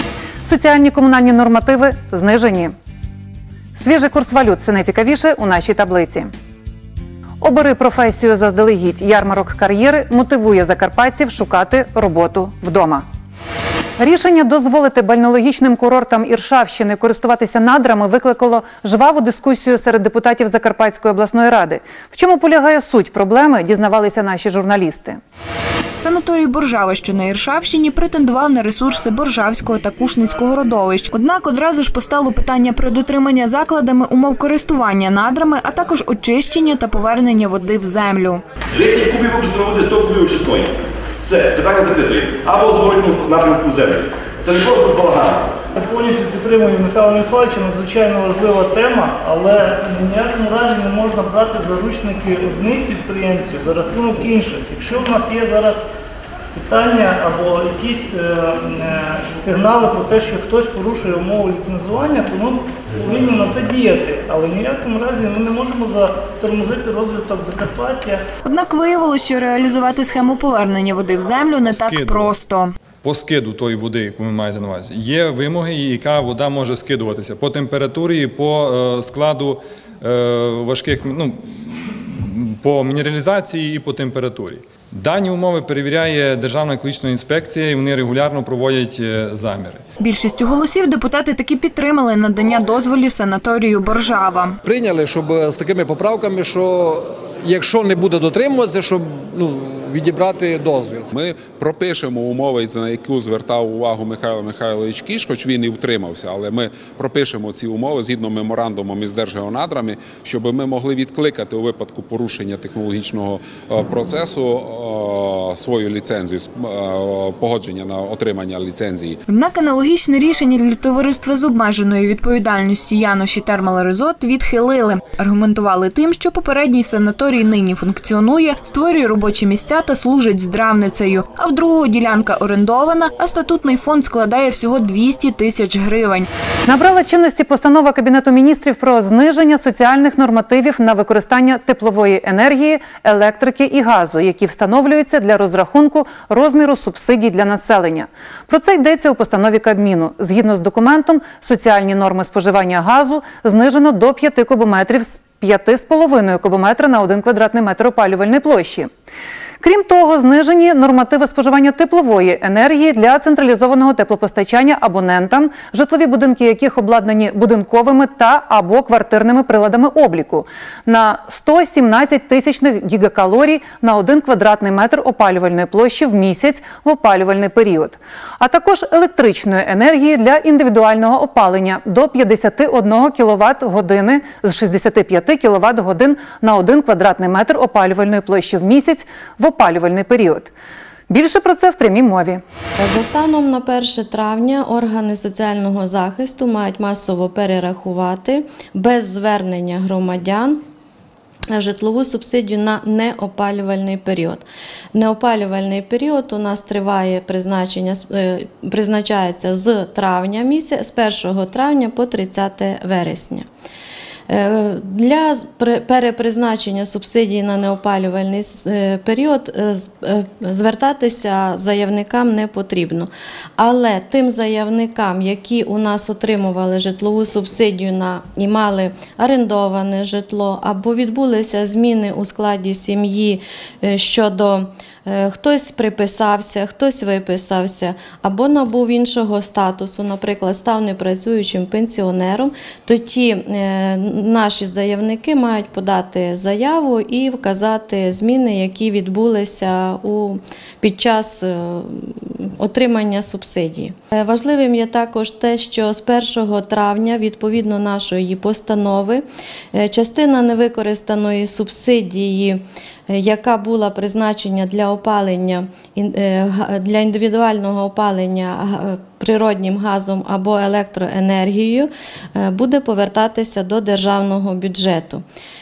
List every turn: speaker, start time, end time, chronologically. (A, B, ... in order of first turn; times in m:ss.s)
0:00.4-0:02.7 A
0:03.8-0:06.3 A
0:07.4-0:13.0 A
0:14.0-0:25.2 A
0:26.0-0:38.4 B
0:38.8-0:40.7 C
0:41.2-0:45.4 C
0:45.8-0:55.8 D
0:56.6-1:08.2 D
1:08.4-1:12.7 B
1:11.7-1:12.3 E
1:13.0-1:21.4 E
1:22.3-1:29.8 E
1:30.0-1:34.6 B
1:34.7-1:41.0 F
1:41.1-1:59.2 G
1:59.3-2:16.3 B
2:16.7-2:38.9 A
2:39.6-3:10.5 A
3:11.1-3:12.4 A
3:12.8-3:20.6 H
3:21.5-3:33.5 H
3:34.3-4:35.2 H